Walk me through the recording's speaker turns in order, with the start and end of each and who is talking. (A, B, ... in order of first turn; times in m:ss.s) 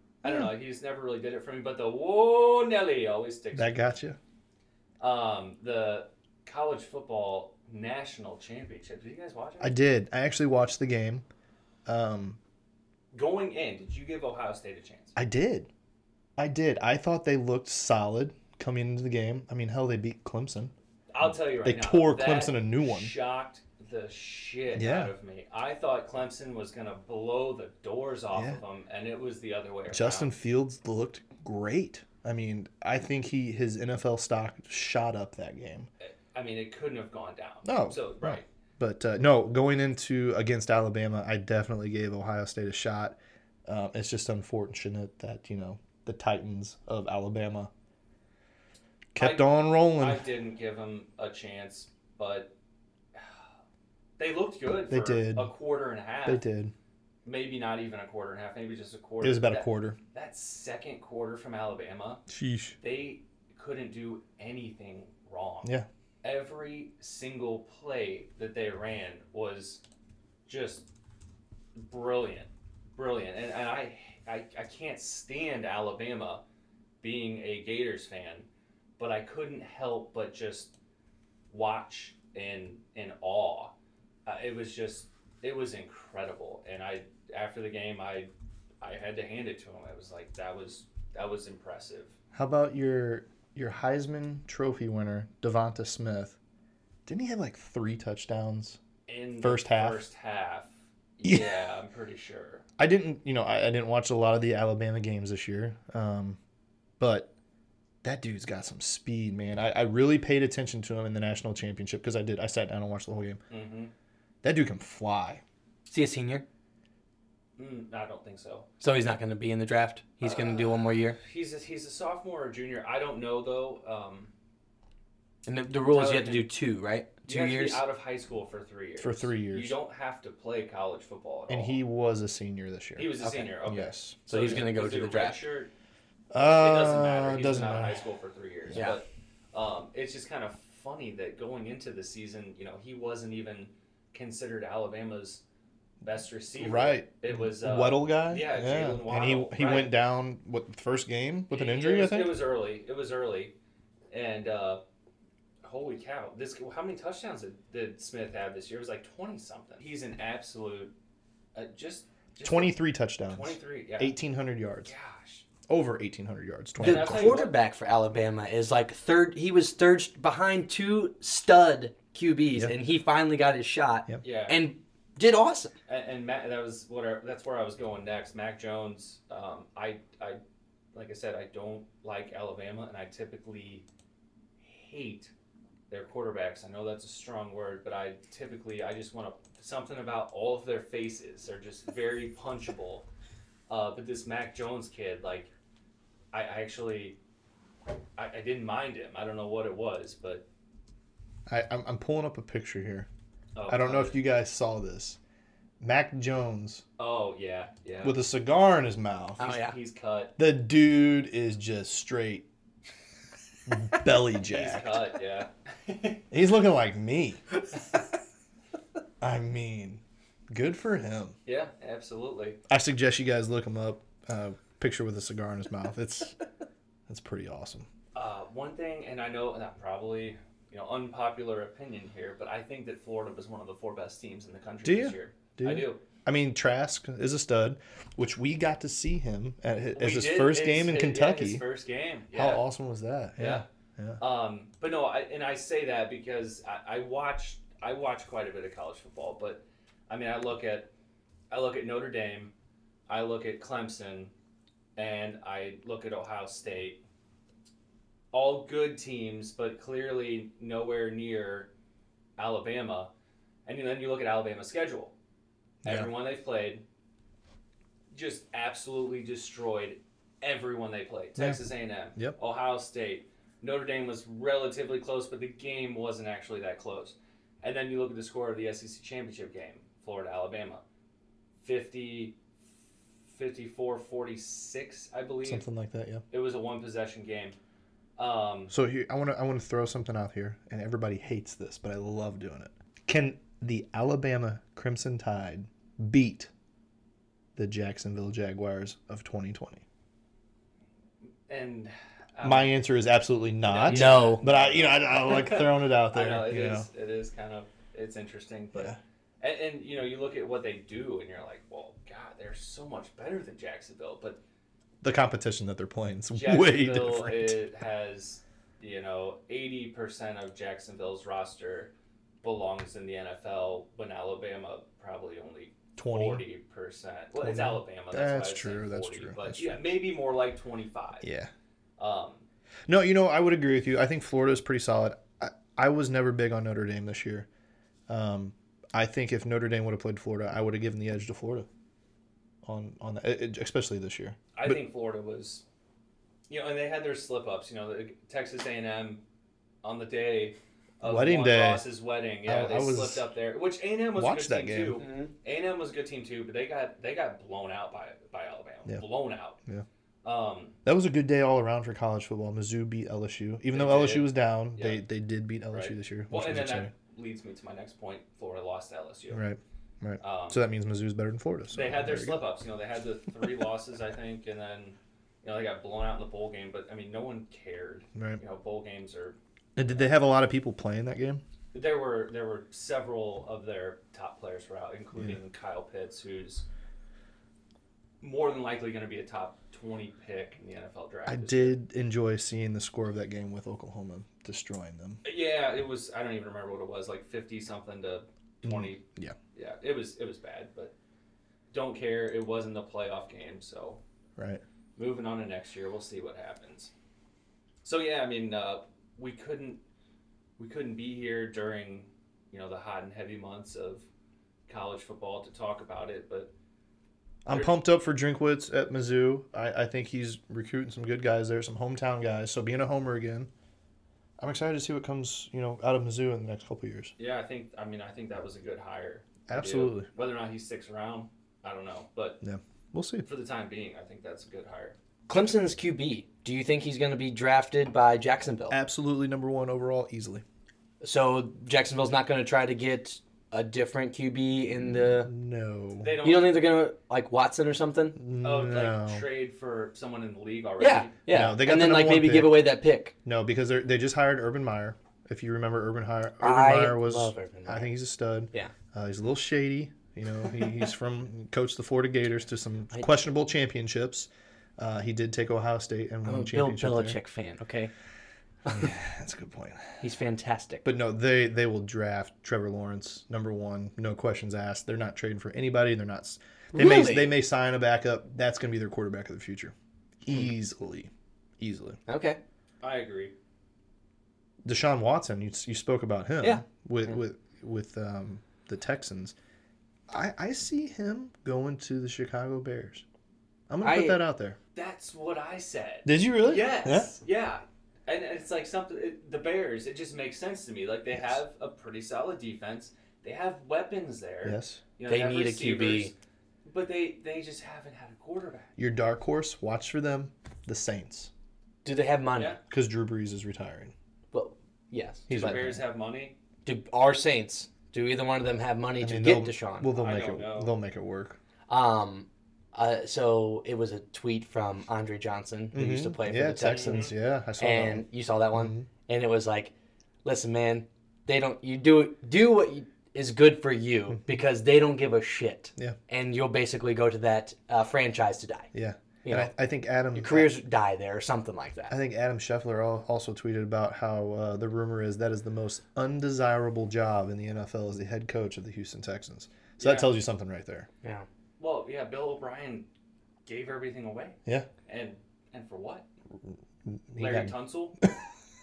0:00.2-0:03.9 A
0:00.2-0:00.5 B
0:03.5-0:04.2 B
0:05.0-0:09.8 A
0:09.6-0:11.2 B
0:11.8-0:12.4 B
0:13.1-0:15.2 A
0:15.2-0:15.7 B
0:16.4-0:20.7 B
0:21.1-0:30.3 A
0:21.6-0:23.1 B
0:24.7-0:25.1 B
0:28.3-0:28.6 B
0:29.9-0:35.9 B
0:36.0-0:38.4 A
0:37.6-0:47.7 B
0:49.1-0:50.2 B
0:49.2-0:52.5 A
0:54.2-0:56.4 A
0:54.9-0:55.5 B
0:56.2-0:56.7 B
0:57.2-1:02.2 A
0:59.2-1:00.0 B
1:02.3-1:02.8 B
1:02.8-1:05.7 A
1:06.2-1:09.8 A
1:10.4-1:10.8 A
1:11.7-1:16.4 A
1:17.0-1:18.5 A
1:19.0-1:20.7 A
1:21.5-1:23.7 A
1:24.2-1:28.3 A
1:28.8-1:32.1 A
1:32.3-1:36.4 B
1:37.0-1:38.8 B
1:39.1-1:42.6 A
1:39.4-1:40.0 B
1:41.2-1:41.5 B
1:42.8-1:46.4 B
1:47.0-1:47.3 B
1:48.0-1:53.4 B
1:53.5-1:53.9 A
1:54.4-1:55.4 B
1:55.9-1:56.4 C
1:57.6-1:58.7 A
1:58.8-2:01.2 C
2:00.2-2:04.3 A
2:05.4-2:07.8 C
2:05.9-2:06.5 A
2:07.3-2:11.8 A
2:09.0-2:09.8 B
2:11.5-2:14.2 B
2:13.0-2:15.7 A
2:13.2-2:13.5 C
2:14.2-2:15.4 C
2:16.3-2:18.0 B
2:16.4-2:25.4 A
2:18.7-2:19.0 C
2:26.0-2:29.9 A
2:26.6-2:32.4 B
2:31.5-2:33.5 A
2:34.1-2:34.8 A
2:35.6-2:40.9 A
2:41.5-2:44.1 A
2:42.4-2:44.9 B
2:44.8-2:45.4 A
2:45.7-2:47.4 B
2:46.8-2:47.5 A
2:46.8-2:55.7 C
2:54.2-2:54.6 A
2:55.9-3:00.4 A
3:00.9-3:03.8 A
3:04.6-3:05.3 A
3:05.9-3:13.0 A
3:13.7-3:15.5 A
3:16.3-3:17.2 A
3:18.2-3:20.4 A
3:21.5-3:23.1 B
3:23.5-3:24.2 A
3:23.7-3:25.2 B
3:25.8-3:26.8 B
3:27.0-3:28.2 A
3:28.0-3:29.4 B
3:29.4-3:29.8 C
3:29.4-3:30.3 A
3:30.4-3:32.4 B
3:33.7-3:35.0 B
3:34.3-3:36.2 A
3:36.3-3:37.4 B
3:39.2-3:41.4 B
3:41.4-3:42.6 A
3:42.7-3:46.4 B
3:47.1-3:47.9 B
3:48.1-3:56.0 A
3:54.8-4:01.6 B
3:59.9-4:02.6 A
4:02.3-4:04.2 B
4:03.4-4:03.6 A
4:04.2-4:10.9 A
4:11.5-4:12.5 A
4:13.1-4:14.3 A
4:15.0-4:17.0 A
4:18.3-4:21.7 A
4:22.4-4:23.1 A
4:23.6-4:25.1 A
4:25.8-4:26.1 B
4:25.8-4:26.8 A
4:28.1-4:40.8 A
4:31.4-4:31.6 B
4:41.6-4:42.4 A
4:43.3-4:45.6 A
4:45.4-4:46.2 B
4:46.3-4:47.6 A
4:48.2-4:48.7 A
4:48.7-4:56.5 B
4:57.6-4:59.8 B
5:01.5-5:02.8 A
5:02.4-5:06.9 B
5:03.6-5:14.4 A
5:03.9-5:04.4 C
5:15.0-5:17.6 B
5:16.3-5:21.9 A
5:22.4-5:31.2 A
5:26.0-5:26.4 B
5:27.4-5:29.8 B
5:31.2-5:31.5 B
5:32.0-5:32.4 A
5:32.9-5:37.5 B
5:38.1-5:41.7 B
5:42.6-5:44.8 B
5:44.5-5:45.6 A
5:46.5-5:49.2 A
5:49.8-5:59.6 A
5:51.0-5:51.8 B
5:52.4-5:53.2 B
5:54.2-5:55.0 B
5:55.0-5:55.3 C
6:00.2-6:00.8 A
6:00.8-6:06.9 B
6:03.7-6:05.0 A
6:05.7-6:09.4 A
6:09.3-6:12.4 B
6:10.2-6:10.6 A
6:11.7-6:20.1 A
6:18.1-6:18.4 B
6:19.8-6:21.4 B
6:21.7-6:26.6 A
6:28.2-6:31.8 A
6:31.3-6:35.2 B
6:35.2-6:40.9 A
6:38.6-6:39.4 B
6:41.7-6:44.0 A
6:44.4-6:44.6 B
6:45.0-6:46.9 A
6:47.8-6:49.8 A
6:50.6-6:54.0 A
6:54.7-6:56.5 A
6:57.4-7:03.5 B
6:57.5-6:57.7 A
7:04.4-7:07.1 B
7:07.2-7:12.4 A
7:09.5-7:10.1 B
7:12.4-7:13.2 B
7:13.2-7:15.0 A
7:15.3-7:18.8 C
7:18.7-7:20.4 B
7:21.0-7:25.3 C
7:25.2-7:26.1 B
7:26.0-7:26.6 A
7:26.2-7:28.2 C
7:28.2-7:29.2 B
7:28.4-7:31.1 A
7:30.8-7:33.1 C
7:31.3-7:32.7 B
7:33.2-7:47.2 B
7:36.4-7:37.9 C
7:46.2-7:47.9 C
7:48.7-7:50.0 B
7:50.0-7:50.8 C
7:50.8-8:02.0 B
7:56.7-7:57.4 C
8:02.1-8:02.4 C
8:02.8-8:03.3 A
8:04.6-8:09.3 B
8:10.1-8:13.0 B
8:13.7-8:14.6 B
8:13.8-8:14.2 C
8:14.7-8:26.1 A
8:16.0-8:17.1 B
8:24.4-8:24.8 B
8:25.0-8:26.1 C
8:26.6-8:28.7 A
8:28.8-8:31.3 B
8:31.8-8:32.6 C
8:32.7-8:33.9 B
8:34.3-8:35.6 C
8:35.3-8:35.8 B
8:35.3-8:36.4 A
8:36.6-8:39.9 C
8:39.0-8:41.4 B
8:39.9-8:40.7 A
8:41.7-8:49.7 C
8:45.7-8:48.9 B
8:46.7-8:47.1 A
8:50.2-8:58.7 C
8:58.7-9:00.5 B
8:59.2-8:59.5 C
9:00.1-9:01.9 C
9:01.9-9:10.9 B
9:09.8-9:10.1 A
9:11.6-9:12.9 A
9:13.4-9:16.0 A
9:16.8-9:18.1 B
9:17.2-9:18.0 A